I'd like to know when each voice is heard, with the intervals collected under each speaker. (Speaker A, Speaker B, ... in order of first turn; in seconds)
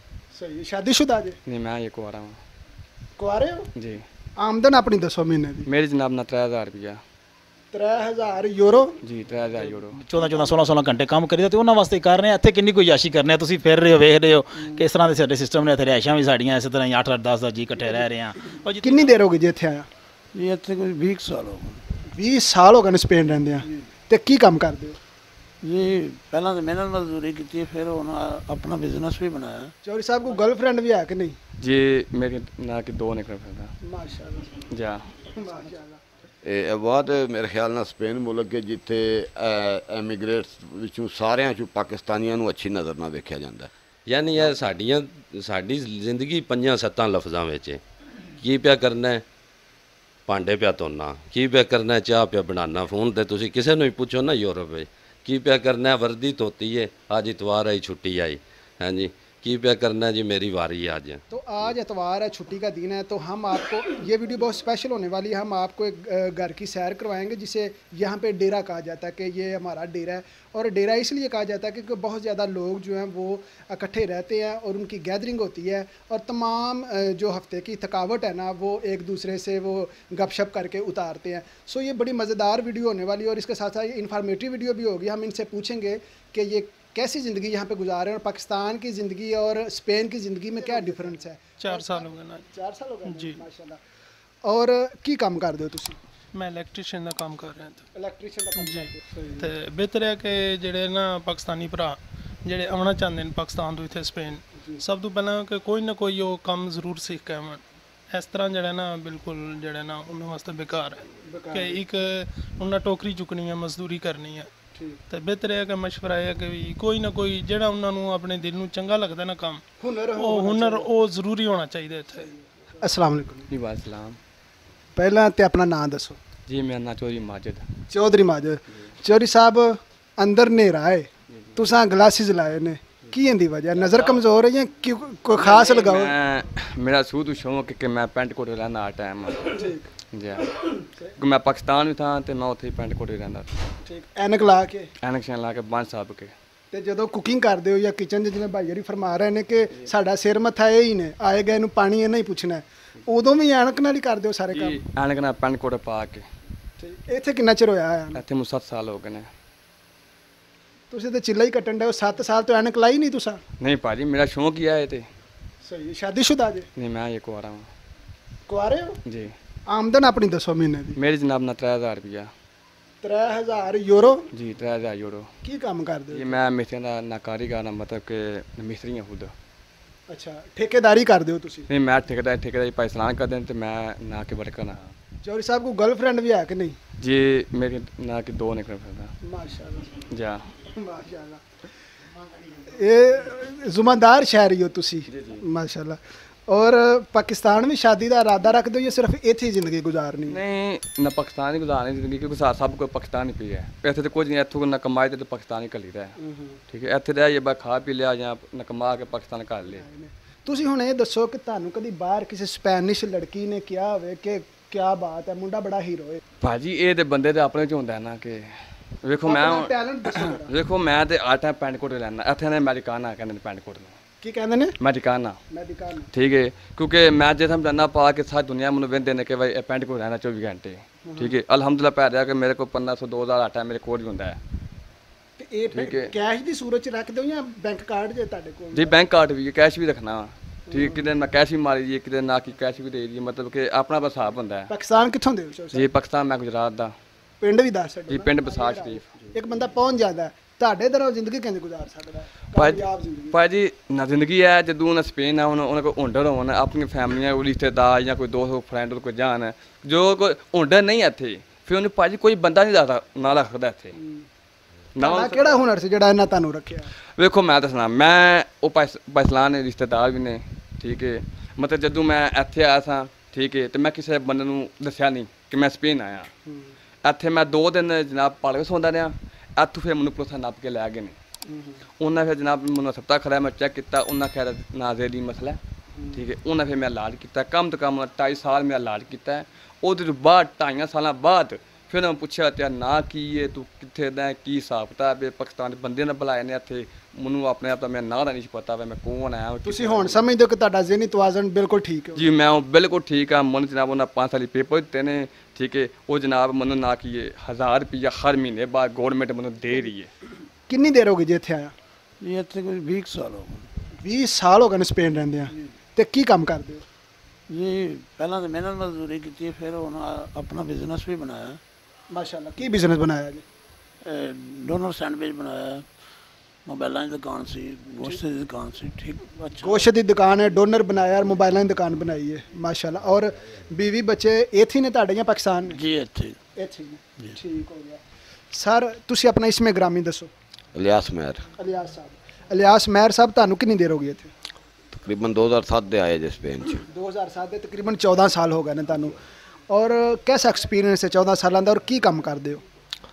Speaker A: 0.3-1.4, 3.2-3.7, 4.4-5.7, 7.7-9.0, 18.8-19.9, 22.1-25.0, 29.9-31.4, 33.9-34.7, 35.3-36.0, 61.3-93.8, 94.5-96.0, 97.9-99.5, 111.3-111.8, 114.8-115.0, 119.8-120.9, 122.8-123.5, 125.0-126.2, 127.9-136.1, 139.6-139.9, 143.9-144.9, 146.7-154.8, 156.8-158.2, 160.9-163.4, 165.6-166.7, 168.5-169.0, 169.7-171.0, 173.0-174.3, 175.4-176.4, 180.1-181.7, 185.2-186.8, 189.2-190.0, 190.8-191.4, 192.6-200.4, 206.2-206.6, 209.7-216.2, 219.2-220.5, 224.2-224.8, 225.5-226.1, 231.1-231.3, 235.4-239.0, 240.7-241.0, 244.7-245.9, 247.4-253.4, 264.0-264.3, 265.0-266.9, 281.5-281.8, 286.0-286.2, 299.6-302.3, 310.7-311.7, 314.0-316.8, 322.1-323.4, 329.6-335.8, 336.6-338.0, 338.5-340.3, 341.6-344.3, 346.9-349.2, 349.7-352.6
Speaker B: 1.5-2.4, 3.8-4.0, 5.7-7.0, 9.0-10.0, 31.6-33.7, 34.7-35.0, 123.5-124.2, 126.5-127.6, 135.3-139.6, 140.1-143.5, 145.0-146.3, 154.5-156.2, 158.2-159.3, 163.6-165.1, 166.8-167.7, 171.0-172.3, 174.3-175.3, 176.1-179.3, 181.7-184.8, 187.0-189.1, 190.1-190.4, 195.1-195.4, 200.3-206.2, 206.7-209.8, 216.4-218.4, 219.0-224.0, 224.8-225.4, 226.1-234.4, 235.7-236.1, 238.7-244.7, 245.7-246.9, 248.1-249.1, 252.6-263.9, 265.0-265.6, 267.2-276.3, 277.1-281.2, 282.0-285.6, 286.1-300.2, 302.2-310.1
Speaker C: 9.9-19.2
Speaker D: 20.3-21.8, 25.6-29.7, 312.2-313.7, 317.5-321.6, 324.0-325.9, 326.7-329.9, 335.7-336.4
Speaker E: 36.4-43.7, 340.7-341.4, 344.9-346.8
Speaker F: 44.1-47.8, 48.4-49.2, 50.3-61.2
Speaker G: 91.6-92.5, 93.0-93.4, 96.3-97.9, 98.6-114.5, 115.1-119.6, 120.2-122.3